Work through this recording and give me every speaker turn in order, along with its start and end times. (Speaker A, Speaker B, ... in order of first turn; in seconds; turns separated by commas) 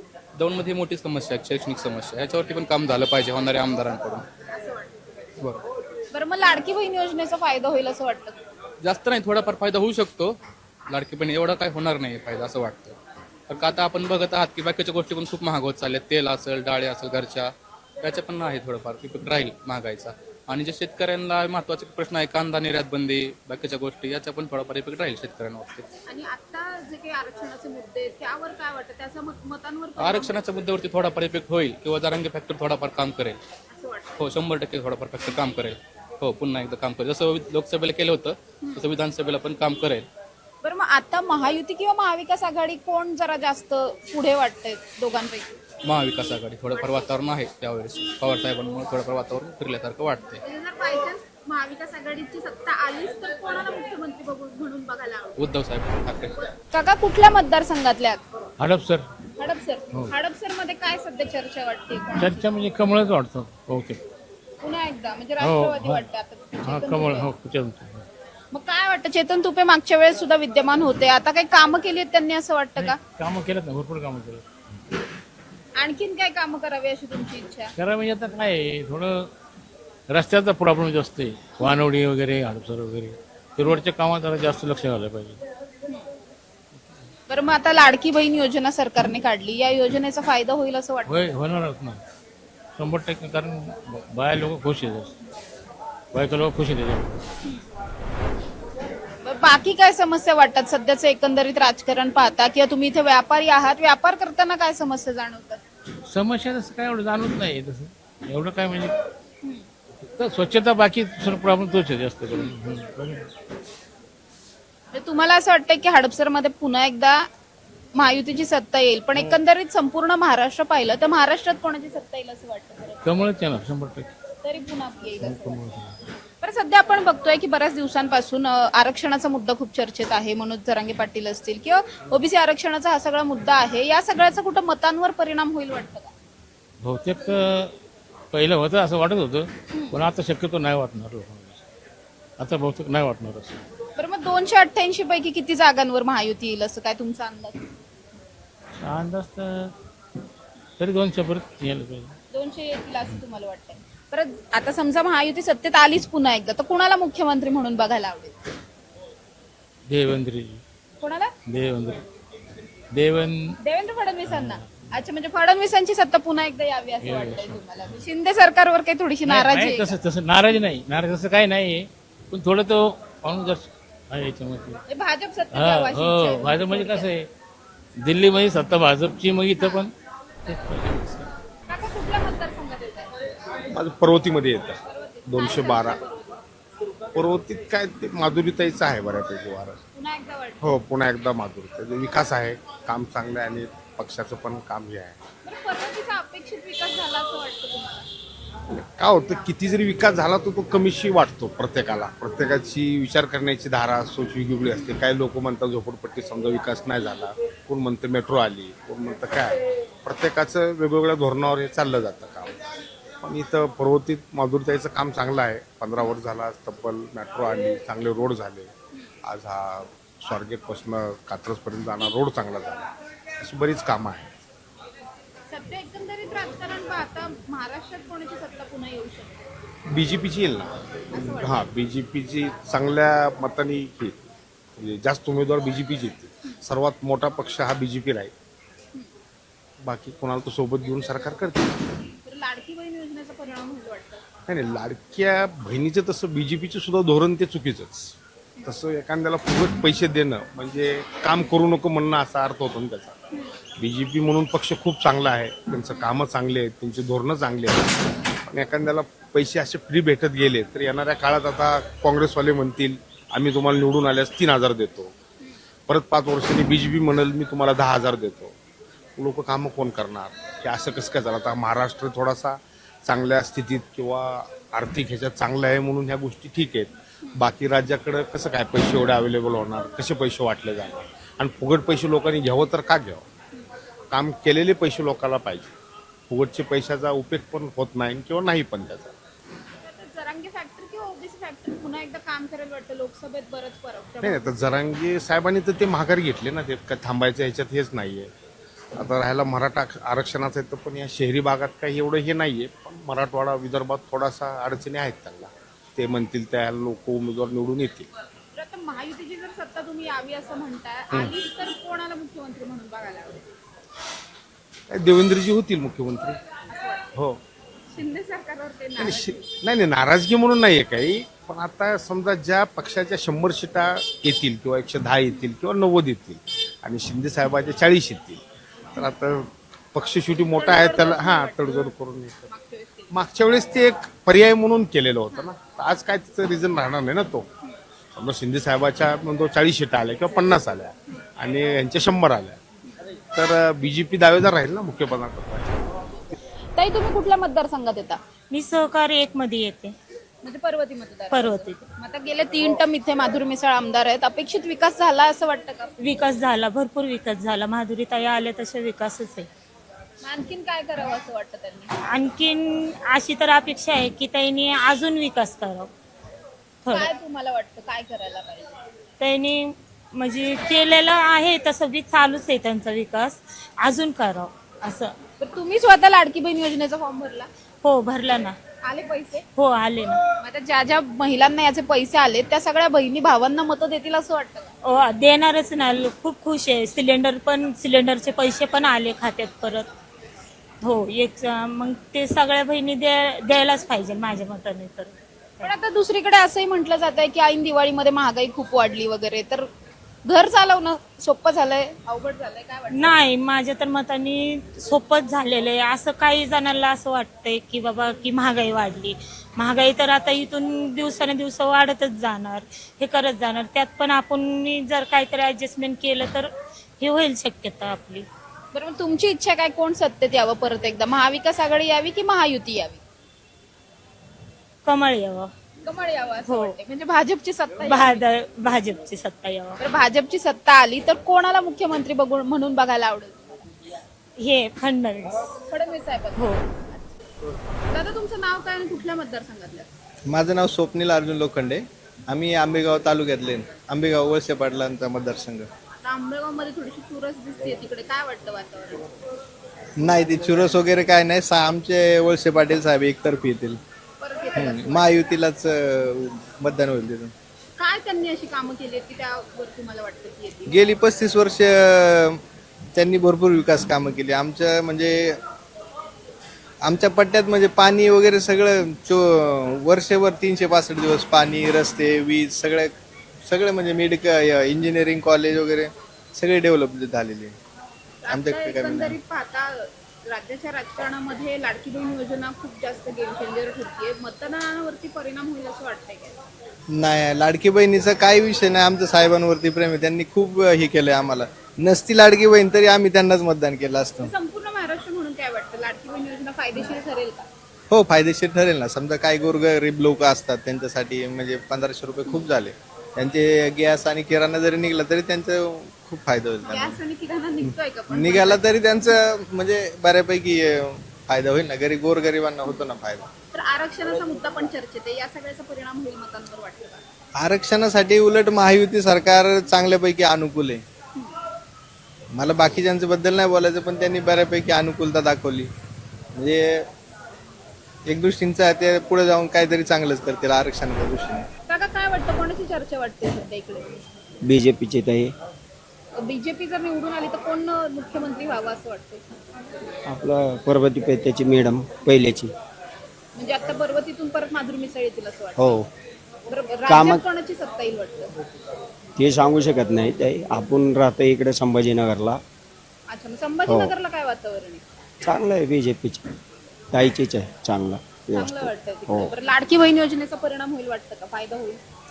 Speaker A: 0.4-4.2, Speaker B: 4.5-4.9, Speaker B: 6.1-8.4, Speaker A: 8.8-10.4, Speaker A: 10.9-13.0, Speaker A: 13.5-25.9, Speaker B: 26.1-30.3, Speaker A: 30.0-33.4, Speaker B: 33.7-34.1, Speaker A: 34.2-40.1, Speaker B: 40.6-45.5, Speaker A: 45.9-50.4, Speaker B: 50.5-55.4, Speaker A: 55.4-56.3, Speaker B: 56.4-58.2, Speaker C: 58.6-59.1, Speaker B: 59.4-62.5, Speaker C: 62.2-64.0, Speaker B: 64.6-67.3, Speaker C: 65.4-66.1, Speaker C: 66.7-68.1, Speaker B: 68.5-73.0, Speaker C: 72.8-74.5, Speaker B: 75.8-77.7, Speaker C: 77.8-79.3, Speaker C: 80.1-85.4, Speaker B: 87.3-91.2, Speaker C: 91.1-92.0, Speaker C: 92.8-95.1, Speaker C: 96.1-97.3, Speaker B: 99.2-105.6, Speaker C: 106.1-108.9, Speaker C: 110.1-113.2, Speaker B: 114.9-117.2, Speaker B: 118.0-123.0, Speaker C: 123.0-124.1, Speaker B: 124.4-125.6, Speaker C: 125.2-126.0, Speaker B: 126.4-136.1, Speaker C: 136.8-137.7, Speaker C: 138.3-141.6, Speaker C: 142.4-143.6, Speaker B: 144.0-147.6, Speaker C: 148.8-149.7, Speaker C: 150.8-152.1, Speaker B: 152.3-158.3, Speaker C: 159.9-160.6, Speaker B: 161.0-161.3, Speaker C: 161.5-162.0, Speaker C: 162.9-163.6, Speaker B: 163.6-170.0, Speaker C: 164.3-164.6, Speaker C: 167.0-167.6, Speaker C: 169.2-174.8, Speaker B: 174.9-177.1, Speaker C: 175.5-177.3, Speaker C: 178.0-179.9, Speaker B: 179.6-179.8, Speaker C: 180.5-181.2, Speaker B: 181.7-183.1, Speaker D: 183.7-186.0, Speaker B: 184.9-186.4, Speaker D: 187.2-189.8, Speaker B: 189.9-190.6, Speaker D: 190.6-195.2, Speaker B: 195.4-198.1, Speaker D: 198.8-212.6, Speaker D: 213.2-218.7, Speaker D: 219.2-222.8, Speaker D: 223.4-224.3, Speaker B: 225.5-229.4, Speaker D: 229.9-234.2, Speaker B: 231.1-231.6, Speaker D: 234.8-238.3, Speaker D: 239.8-241.8, Speaker B: 242.3-244.2, Speaker D: 244.5-253.2, Speaker D: 253.8-257.9, Speaker D: 258.5-265.1, Speaker D: 265.9-268.6, Speaker D: 269.2-283.2, Speaker D: 284.1-285.7, Speaker D: 286.3-289.1, Speaker B: 289.8-294.6, Speaker D: 294.2-298.3, Speaker D: 299.0-308.1, Speaker B: 308.6-313.5, Speaker D: 314.9-316.4, Speaker B: 316.7-317.1, Speaker B: 317.9-319.4, Speaker D: 319.0-328.4, Speaker D: 329.0-332.5, Speaker B: 330.4-332.0, Speaker B: 332.5-333.1, Speaker D: 333.1-337.5, Speaker D: 338.2-342.6, Speaker D: 343.3-345.8, Speaker B: 346.8-348.2, Speaker E: 348.5-349.9, Speaker B: 350.4-355.9, Speaker E: 351.3-351.8, Speaker E: 356.0-359.5, Speaker B: 360.2-361.9, Speaker E: 362.1-365.9, Speaker B: 366.9-368.7, Speaker E: 369.2-375.2, Speaker B: 375.4-377.5, Speaker E: 377.8-378.6, Speaker B: 378.8-379.5, Speaker E: 379.6-380.2, Speaker B: 380.4-384.7, Speaker E: 384.8-389.9, Speaker E: 390.8-395.7, Speaker B: 395.6-399.7, Speaker B: 400.2-403.2, Speaker E: 402.9-418.3, Speaker B: 418.7-423.0, Speaker E: 424.9-425.5, Speaker B: 425.8-428.2, Speaker E: 426.5-426.8, Speaker E: 427.8-429.8, Speaker B: 429.8-433.6, Speaker E: 434.4-435.4, Speaker B: 435.7-437.2, Speaker E: 436.4-436.6, Speaker B: 437.9-439.9, Speaker F: 440.3-445.7, Speaker B: 446.0-449.0, Speaker F: 450.0-453.8, Speaker B: 454.2-455.1, Speaker F: 454.6-457.3, Speaker B: 457.8-460.8, Speaker F: 460.7-462.4, Speaker F: 462.9-465.4, Speaker F: 466.8-472.9, Speaker F: 473.4-477.6, Speaker B: 478.2-486.4, Speaker F: 478.3-479.2, Speaker F: 486.9-494.3, Speaker B: 494.2-497.5, Speaker F: 497.9-507.0, Speaker B: 506.7-508.7, Speaker F: 508.1-513.3, Speaker B: 513.5-517.0, Speaker F: 517.4-520.8, Speaker F: 522.4-525.7, Speaker F: 526.4-526.9, Speaker F: 528.1-531.5, Speaker B: 531.7-534.0, Speaker G: 534.5-535.3, Speaker B: 536.2-539.2, Speaker G: 540.1-542.5, Speaker B: 543.4-545.8, Speaker B: 546.5-548.3, Speaker G: 546.9-547.2, Speaker G: 549.2-552.4, Speaker B: 553.1-554.8, Speaker G: 555.2-556.3, Speaker G: 556.9-559.3, Speaker B: 558.3-561.8